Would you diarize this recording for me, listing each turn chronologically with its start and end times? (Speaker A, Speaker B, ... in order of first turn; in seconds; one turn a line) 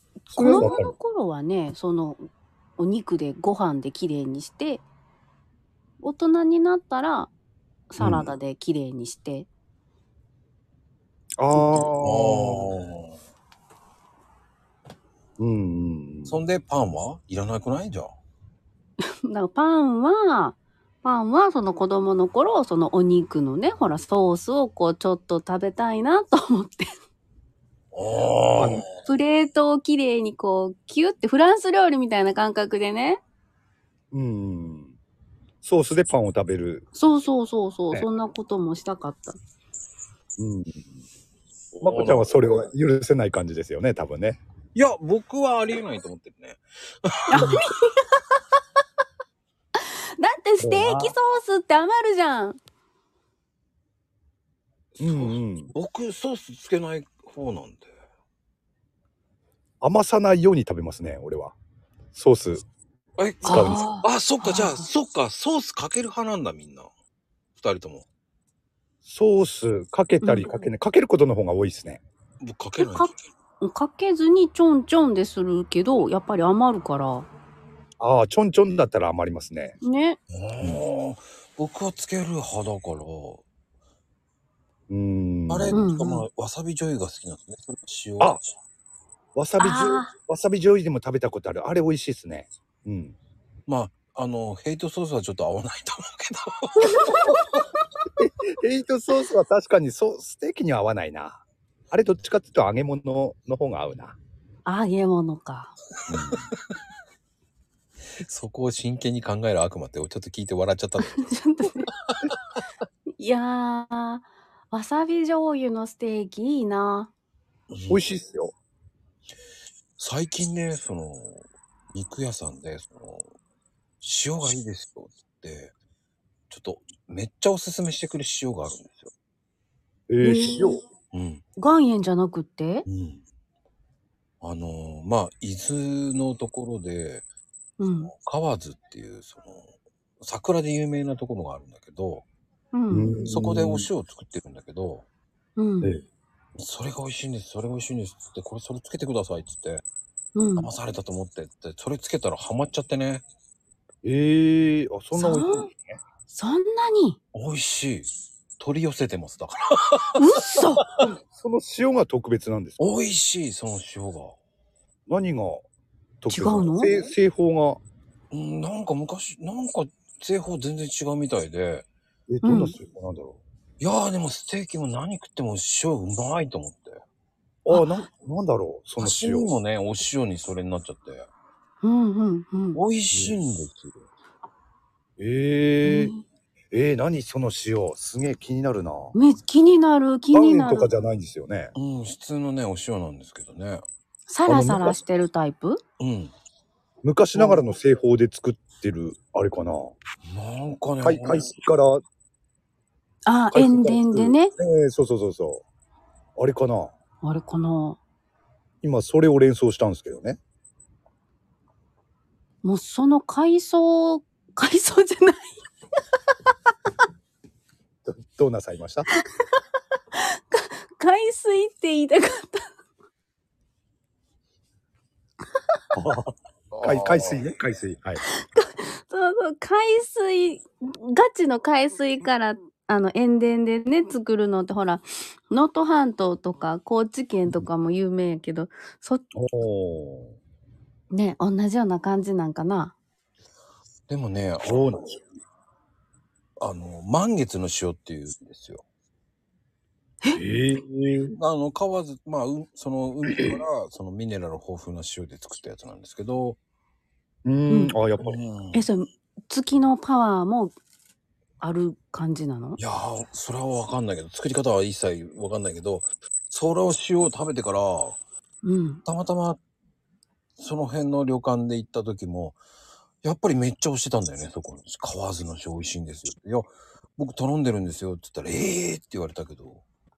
Speaker A: 0.2-2.2
Speaker B: 0.3-0.9
Speaker A: 2.8-4.8
Speaker A: 6.0-7.3
Speaker A: 7.9-9.5
Speaker B: 8.0-8.3
Speaker B: 11.4-12.7
Speaker C: 11.6-13.2
Speaker B: 15.4-16.4
Speaker C: 16.3-18.1
Speaker A: 19.2-26.9
Speaker C: 27.9-28.9
Speaker B: 28.6-28.9
Speaker A: 29.0-33.2
Speaker B: 34.1-34.9
Speaker B: 35.6-36.8
Speaker A: 36.9-39.4
Speaker B: 40.4-40.9
Speaker C: 41.8-42.4
Speaker B: 41.8-44.4
Speaker C: 44.7-47.6
Speaker A: 47.3-48.2
Speaker B: 47.3-47.6
Speaker A: 49.8-52.6
Speaker B: 50.6-51.1
Speaker B: 55.0-55.7
Speaker C: 55.0-57.9
Speaker B: 59.8-61.5
Speaker B: 62.1-62.6
Speaker C: 63.2-66.9
Speaker A: 63.4-64.8
Speaker B: 63.5-63.9
Speaker C: 67.6-68.0
Speaker B: 69.0-72.0
Speaker A: 70.2-70.5
Speaker C: 72.4-73.1
Speaker A: 72.8-77.3
Speaker B: 78.0-79.8
Speaker A: 79.8-80.2
Speaker C: 80.3-83.4
Speaker B: 84.9-85.8
Speaker C: 85.5-88.4
Speaker A: 85.7-86.2
Speaker B: 89.3-93.2
Speaker A: 89.6-90.1
Speaker C: 93.7-97.1
Speaker A: 96.9-97.6
Speaker B: 98.2-104.2
Speaker A: 104.6-105.7
Speaker C: 106.1-106.5
Speaker B: 106.1-106.4
Speaker C: 108.2-111.3
Speaker A: 111.0-111.9
Speaker A: 113.2-117.1
Speaker C: 117.7-118.1
Speaker B: 117.9-118.5
Speaker C: 120.0-123.3
Speaker C: 124.0-125.7
Speaker C: 126.5-129.1
Speaker B: 130.1-130.8
Speaker A: 130.2-130.8
Speaker C: 131.1-131.4
Speaker A: 131.6-132.8
Speaker C: 132.9-133.2
Speaker C: 134.4-137.2
Speaker A: 137.8-138.1
Speaker C: 138.1-139.7
Speaker C: 140.2-142.2
Speaker A: 142.7-143.2
Speaker B: 142.9-143.9
Speaker C: 143.3-145.1
Speaker A: 145.6-145.9
Speaker C: 146.6-149.8
Speaker A: 150.3-150.7
Speaker C: 150.6-153.2
Speaker B: 154.0-156.0
Speaker A: 155.1-155.7
Speaker A: 156.3-157.2
Speaker C: 157.3-160.3
Speaker A: 160.2-160.8
Speaker B: 161.0-162.9
Speaker C: 162.8-164.3
Speaker B: 165.1-165.6
Speaker B: 166.2-167.8
Speaker A: 166.3-166.9
Speaker C: 168.3-171.8
Speaker B: 172.3-173.4
Speaker A: 172.4-172.8
Speaker C: 173.8-177.0
Speaker B: 177.6-179.5
Speaker A: 177.7-178.0
Speaker C: 179.0-181.3
Speaker A: 181.8-182.8
Speaker C: 182.7-184.0
Speaker B: 183.1-183.4
Speaker B: 185.2-186.1
Speaker A: 185.8-186.2
Speaker B: 186.7-189.1
Speaker A: 189.1-190.9
Speaker B: 190.3-191.7
Speaker C: 191.7-193.8
Speaker A: 194.3-195.8
Speaker B: 194.4-195.0
Speaker C: 196.0-196.3
Speaker B: 197.0-199.9
Speaker A: 197.3-197.6
Speaker C: 200.3-201.4
Speaker B: 201.0-202.0
Speaker A: 203.2-204.5
Speaker B: 203.5-205.6
Speaker B: 206.4-206.9
Speaker A: 207.2-208.0
Speaker B: 208.8-210.4
Speaker A: 212.6-215.6
Speaker B: 218.0-219.1
Speaker A: 220.1-222.7
Speaker B: 225.9-228.2
Speaker C: 226.7-227.4
Speaker A: 228.2-239.3
Speaker B: 239.3-240.3
Speaker A: 241.1-242.9
Speaker C: 244.1-244.8
Speaker B: 244.6-245.2
Speaker C: 246.6-248.8
Speaker B: 250.3-251.3
Speaker C: 251.3-256.6
Speaker B: 253.2-253.5
Speaker B: 257.4-258.4
Speaker A: 257.7-258.0
Speaker C: 258.2-258.9
Speaker A: 258.7-260.7
Speaker A: 261.6-262.8
Speaker C: 262.8-268.2
Speaker A: 268.6-269.0
Speaker C: 269.0-269.6
Speaker C: 270.6-272.6
Speaker C: 273.2-279.8